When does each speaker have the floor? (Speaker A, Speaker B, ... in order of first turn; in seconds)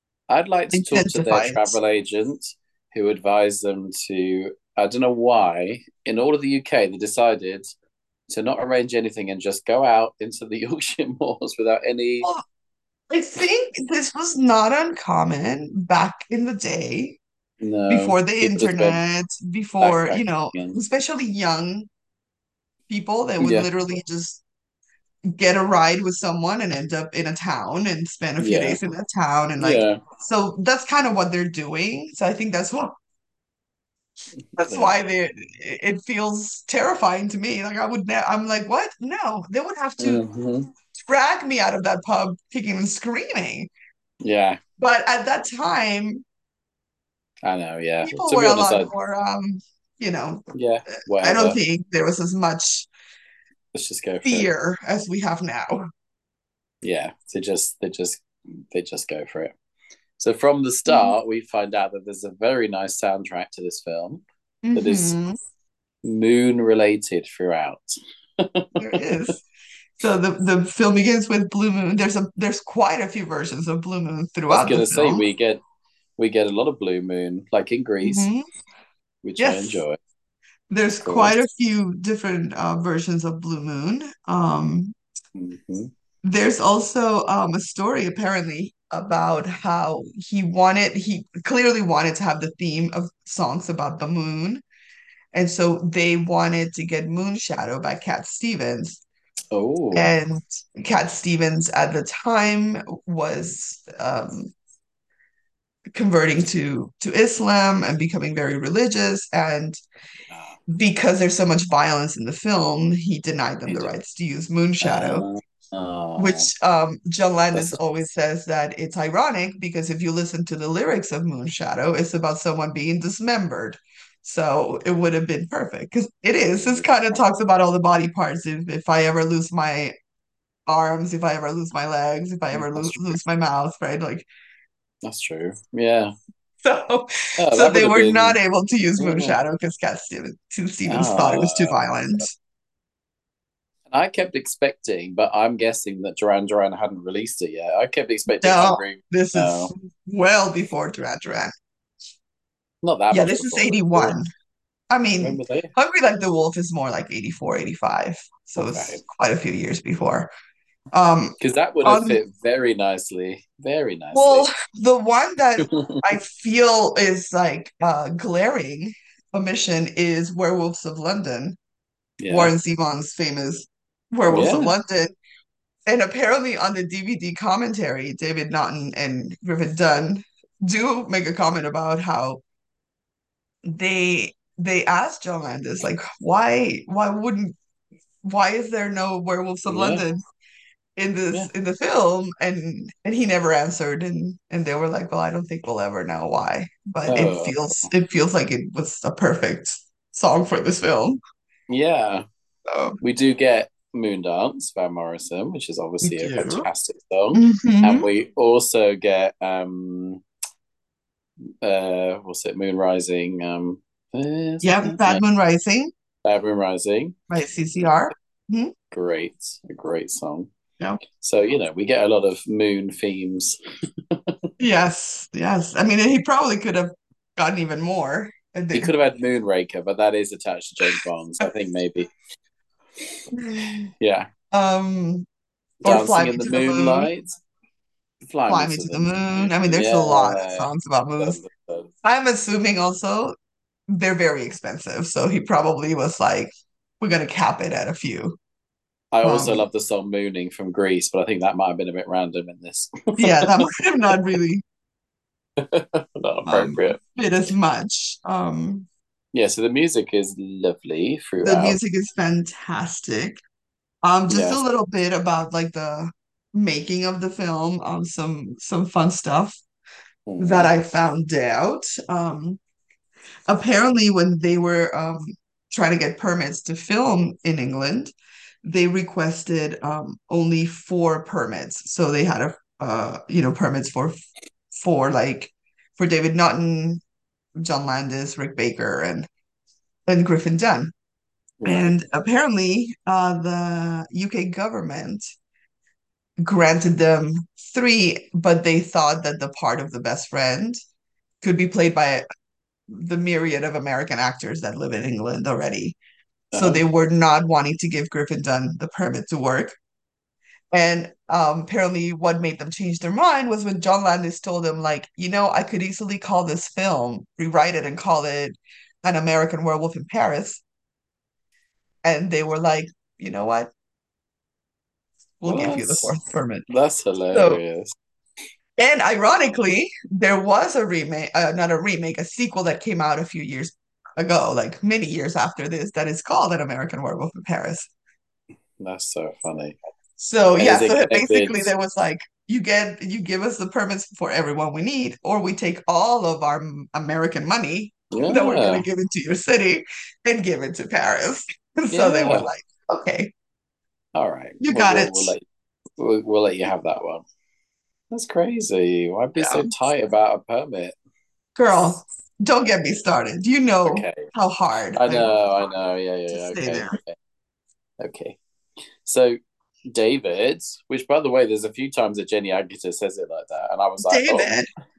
Speaker A: 0.3-7.7, 8.3-12.3, 17.6-19.0, 19.8-20.8, 23.4-23.7, 28.4-28.8, 29.6-30.0, 34.4-35.0, 40.0-40.7, 44.2-44.6, 47.4-48.9, 50.5-51.6, 53.7-54.5, 56.8-59.5, 60.2-64.2, 64.7-65.2, 66.0-69.3, 74.5-75.6, 76.2-78.3, 79.2-80.0, 81.0-81.3, 85.3-85.9, 99.5-100.1, 110.3-110.6, 113.7-113.9, 114.8-116.5, 117.5-117.8, 126.7-127.2, 132.5-133.2, 135.0-136.1, 137.4-138.4, 139.0-139.4, 140.9-142.3, 143.9-149.7, 152.8-154.2, 155.2-155.7, 158.6-159.0, 161.4-164.5, 165.6-166.2, 172.2-172.5, 174.3-174.7, 189.7-190.0, 197.0-197.9, 201.7-202.2, 203.0-210.2, 211.6-215.2, 216.2-217.2, 218.9-220.5, 221.1-223.6, 224.1-224.4, 228.7-232.1, 234.0-234.3, 235.8-237.3, 238.2-241.9, 249.1-253.7, 255.6-257.0, 259.3-261.8, 264.3-264.6, 270.3-270.7, 291.6-292.0, 306.5-306.8, 325.4-327.9, 338.8-339.8, 340.6-341.7, 348.1-348.8, 351.9-352.5, 354.1-355.4, 356.0-357.2, 358.1-360.9, 363.8-364.3, 364.9-367.1, 368.0-368.4, 369.0-374.5
Speaker B: 0.7-1.8, 13.1-17.2, 17.9-21.9, 22.9-24.4, 25.3-32.9, 34.6-40.2, 40.9-43.7, 44.8-46.2, 48.0-50.5, 51.0-52.9, 54.2-55.9, 60.9-61.1, 64.6-65.3, 68.8-69.4, 70.0-75.2, 78.0-78.4, 79.4-79.8, 80.7-84.9, 86.2-94.6, 95.3-99.0, 99.9-104.5, 105.9-109.8, 110.7-115.2, 116.2-129.9, 130.7-134.3, 136.6-142.3, 148.4-151.5, 153.1-154.2, 154.9-160.3, 160.9-162.2, 164.1-171.6, 172.3-175.1, 175.9-182.4, 183.6-187.6, 188.2-190.2, 190.9-201.2, 202.7-203.0, 206.0-206.7, 207.3-208.1, 214.6-215.9, 217.3-218.7, 224.6-228.9, 230.9-231.4, 233.3-233.9, 234.5-235.3, 235.8-237.1, 238.5-241.4, 242.0-243.3, 243.9-248.4, 249.2-249.7, 253.2-254.6, 256.5-258.9, 261.4-263.4, 264.0-269.6, 270.4-272.6, 273.5-284.2, 284.7-287.0, 287.6-289.3, 290.1-290.9, 291.6-295.3, 296.4-300.8, 301.4-302.2, 302.9-306.0, 306.5-309.8, 310.7-320.6, 322.0-323.7, 325.4-326.6, 327.3-327.6, 328.8-337.9, 340.2-353.3, 354.6-355.3, 359.4-359.7, 361.6-365.3, 366.3-367.0, 374.0-374.7